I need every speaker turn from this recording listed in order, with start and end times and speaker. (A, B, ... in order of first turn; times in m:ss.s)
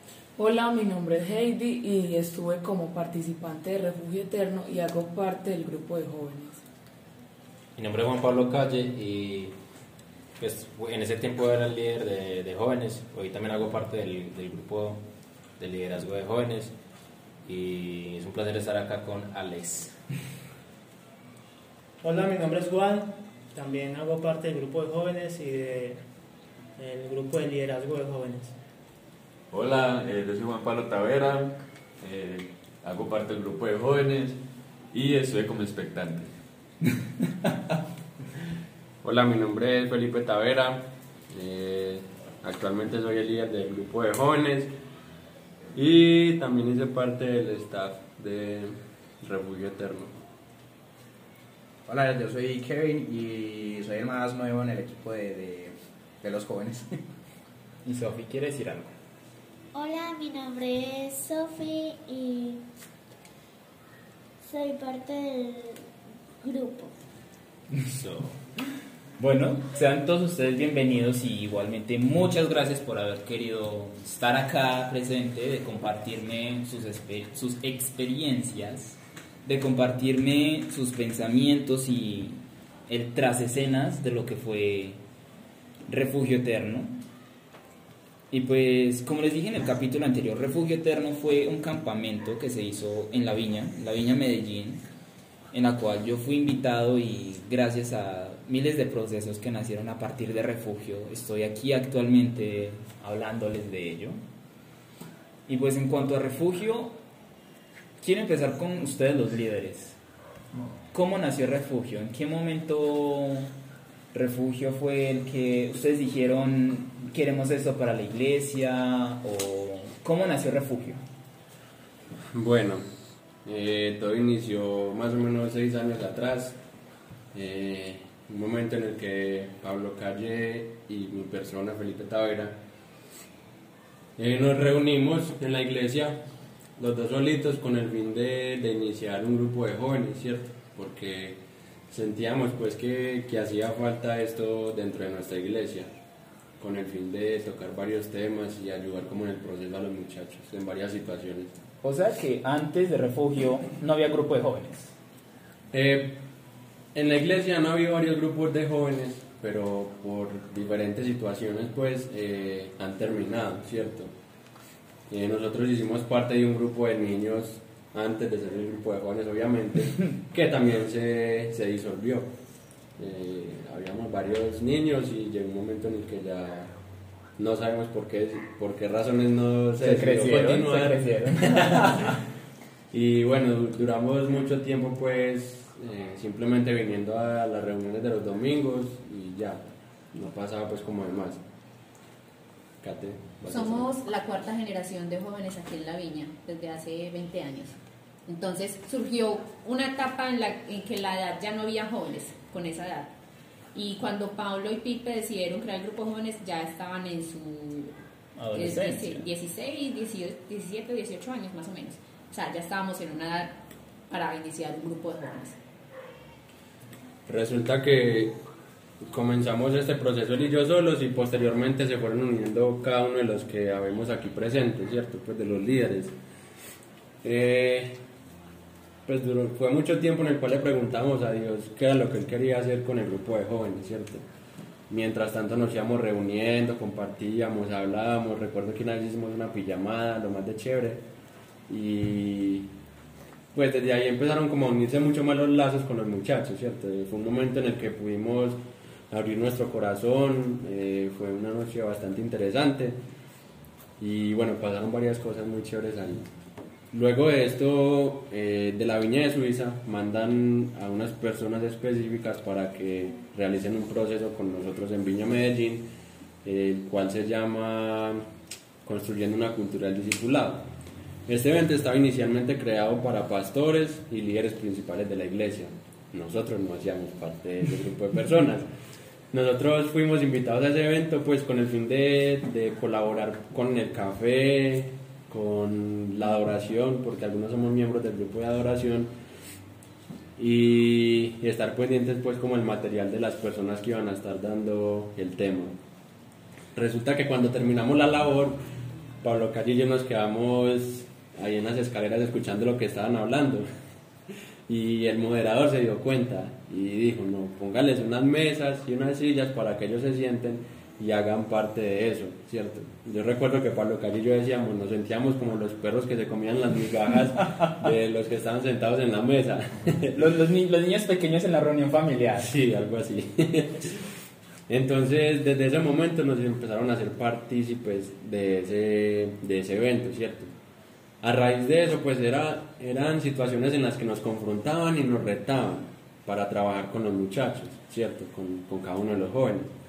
0:00.4-0:06.6 A
0:07.8-0:09.6 B
0:10.4-0:15.0 B
0:15.6-0:16.7 B
0:17.4-0:20.0 B
0:22.0-0:26.0 C
0:26.8-0:28.6 C
0:29.5-0:34.4 D
0:34.9-0:36.3 D
0:39.0-0:44.7 E
0:45.8-0:50.2 E
0:51.9-0:56.9 F
0:57.8-0:58.9 G
0:59.7-1:02.6 H
1:04.4-1:05.8 H
1:06.4-1:06.9 H
1:07.8-1:08.3 G
1:09.2-1:25.0 G
1:25.9-1:27.0 G
1:28.3-1:34.8 G
1:35.5-1:44.2 G
1:45.5-1:47.0 G
1:48.0-1:50.0 G
1:50.9-1:53.5 G
1:54.1-2:01.0 G
2:02.3-2:02.8 E
2:03.4-2:06.6 E
2:07.3-2:12.6 E
2:14.2-2:16.2 E
2:16.8-2:25.9 E
2:26.6-2:31.5 E
2:31.8-2:35.0 G
2:35.7-2:36.2 E
2:36.9-2:44.1 E
2:45.1-2:52.3 E
2:53.0-2:56.7 E
2:57.4-3:02.1 E
2:59.8-3:02.2 G
3:02.9-3:11.4 E
3:12.8-3:13.9 E
3:13.5-3:23.1 I
3:23.7-3:27.9 I
3:28.4-3:29.3 G
3:28.5-3:35.6 I
3:37.3-3:38.4 E
3:39.0-3:46.1 E
3:47.2-3:48.0 E
3:49.1-3:54.2 E
3:54.9-4:01.0 E
4:01.7-4:02.7 E
4:03.5-4:13.0 E
4:14.0-4:16.3 E
4:16.9-4:25.9 E
4:26.4-4:28.2 E
4:28.8-4:30.7 E
4:31.3-4:38.7 E
4:39.3-4:49.1 E
4:50.4-4:55.8 E
4:56.8-4:58.6 E
4:59.2-5:03.7 E
5:04.7-5:20.2 E
5:20.2-5:22.5 G
5:22.4-5:24.0 E
5:24.7-5:30.5 E
5:31.2-5:39.7 E